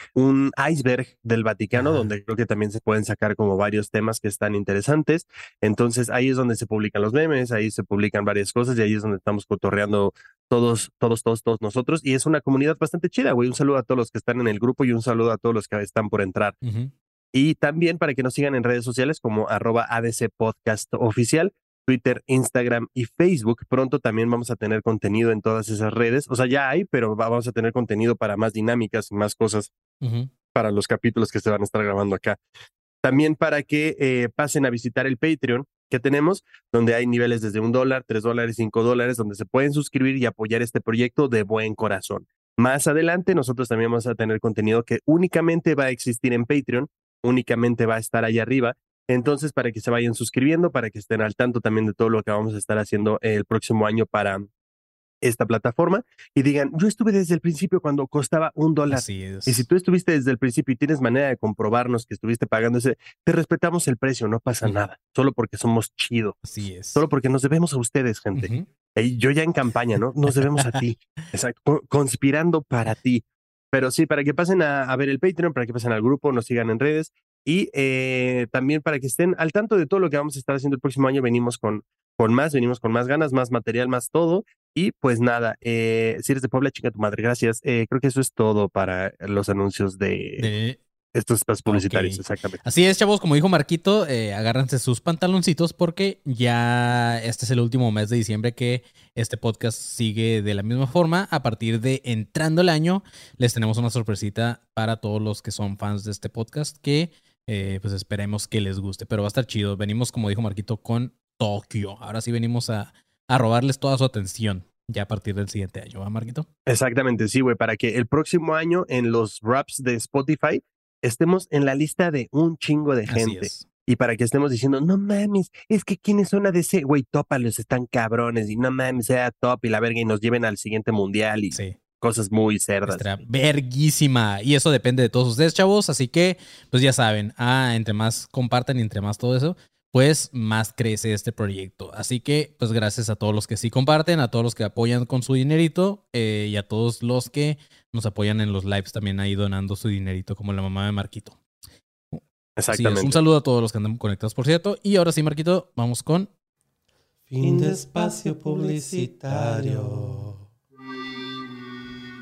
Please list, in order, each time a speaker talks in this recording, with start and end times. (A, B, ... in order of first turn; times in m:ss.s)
0:00.1-0:16.6 A
0:01.8-0:02.1 B
0:16.6-0:16.9 B
0:17.3-0:29.7 A
0:30.0-0:30.3 B
0:30.5-0:32.4 A
0:33.0-0:54.5 A
0:55.2-1:06.4 A
0:58.9-0:59.7 B
1:06.4-1:07.0 B
1:07.0-1:30.5 A
1:08.4-1:08.7 B
1:30.4-1:30.8 B
1:31.1-1:32.6 A
1:31.7-1:56.5 B
1:56.7-2:13.2 A
2:03.1-2:03.7 B
2:11.5-2:11.8 B
2:12.9-2:31.4 B
2:32.1-2:36.3 B
2:32.6-2:33.2 A
2:37.3-2:40.4 C